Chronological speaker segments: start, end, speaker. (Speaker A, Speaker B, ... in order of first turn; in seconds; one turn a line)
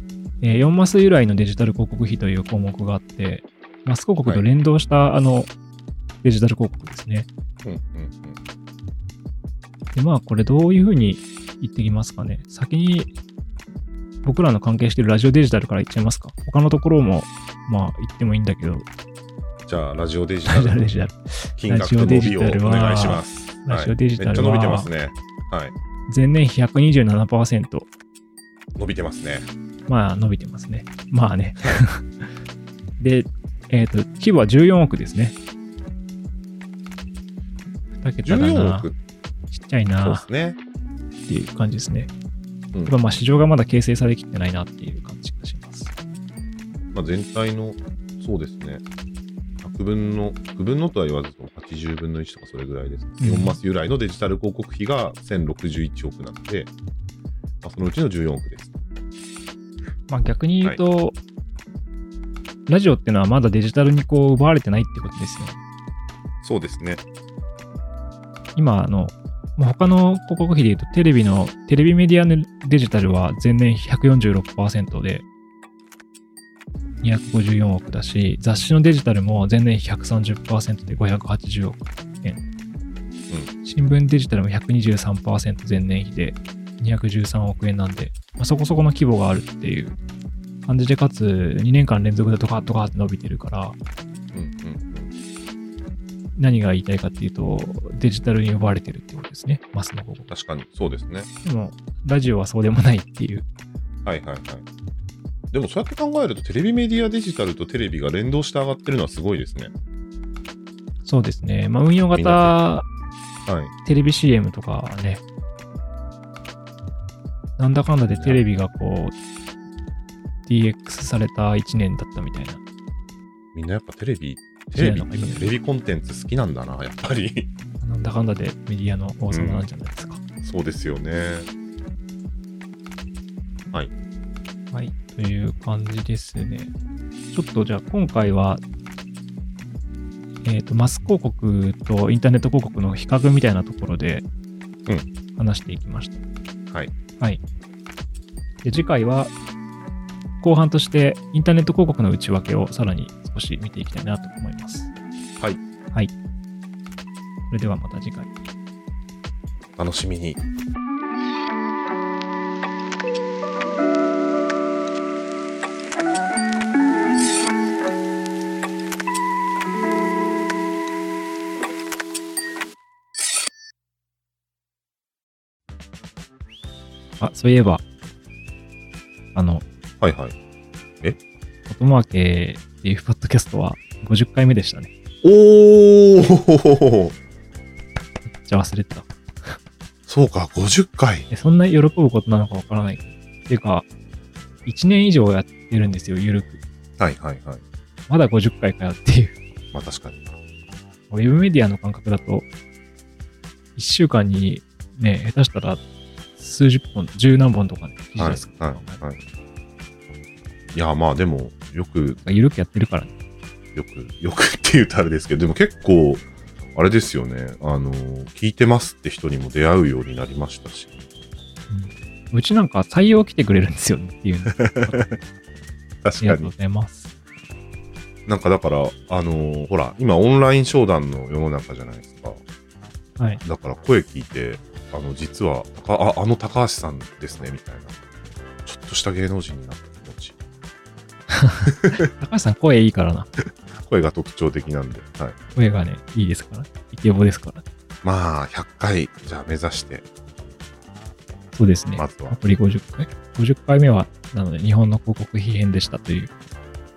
Speaker A: 0.4-5.5
Speaker A: 6.2-7.3
Speaker B: 7.6-8.4
Speaker A: 9.9-13.1
Speaker A: 14.2-18.9
Speaker B: 19.7-20.8
Speaker A: 20.5-24.9
Speaker B: 21.6-25.7
Speaker A: 26.1-27.9
Speaker B: 28.8-29.5
Speaker A: 29.9-32.2
Speaker A: 33.0-35.4
Speaker A: 38.0-38.9
Speaker B: 38.2-39.0
Speaker A: 39.5-40.2
Speaker B: 40.0-40.6
Speaker A: 41.3-42.1
Speaker A: 42.9-45.9
Speaker B: 46.9-48.8
Speaker B: 49.6-56.7
Speaker A: 53.2-53.6
Speaker B: 57.6-58.8
Speaker A: 60.1-61.2
Speaker A: 62.7-65.6
Speaker B: 66.4-67.0
Speaker A: 68.5-75.2
Speaker A: 77.0-82.4
Speaker A: 83.6-90.0
Speaker A: 90.7-93.8
Speaker B: 94.3-95.1
Speaker A: 96.3-100.3
Speaker B: 100.3-101.3
Speaker A: 101.4-103.5
Speaker B: 104.0-104.6
Speaker B: 105.5-109.7
Speaker A: 111.0-112.9
Speaker B: 112.1-112.6
Speaker B: 113.5-113.7
Speaker A: 113.8-115.2
Speaker A: 117.6-119.2
Speaker B: 118.1-118.4
Speaker A: 120.5-122.6
Speaker B: 123.5-127.5
Speaker A: 124.7-125.6
Speaker A: 127.8-130.2
Speaker B: 129.3-129.7
Speaker B: 130.4-131.5
Speaker A: 134.7-136.7
Speaker A: 137.3-138.6
Speaker A: 140.4-144.2
Speaker A: 145.3-146.2
Speaker A: 148.6-149.3
Speaker A: 150.4-154.9
Speaker A: 157.5-158.3
Speaker B: 159.8-160.4
Speaker A: 177.2-177.8
Speaker A: 179.3-179.6
Speaker B: 180.0-180.3
Speaker A: 181.7-184.9
Speaker B: 185.2-187.1
Speaker A: 188.4-189.6
Speaker B: 190.1-191.3
Speaker A: 191.3-193.8
Speaker A: 194.7-196.6
Speaker B: 197.0-197.6
Speaker A: 198.1-199.3
Speaker B: 199.7-200.2
Speaker A: 201.1-202.5
Speaker A: 203.8-205.8
Speaker A: 206.4-209.0
Speaker B: 208.2-209.2
Speaker B: 210.7-212.2
Speaker A: 212.2-213.1
Speaker B: 213.7-221.0
Speaker A: 221.7-225.0
Speaker B: 224.6-225.1
Speaker B: 226.0-226.5
Speaker A: 226.2-227.1
Speaker B: 228.3-232.4
Speaker A: 233.2-233.4
Speaker B: 233.4-238.0
Speaker B: 238.7-240.3
Speaker A: 241.3-243.3
Speaker B: 241.7-242.0
Speaker B: 243.8-245.3
Speaker A: 245.6-247.6
Speaker B: 248.0-250.0
Speaker A: 251.5-256.3
Speaker B: 252.0-252.4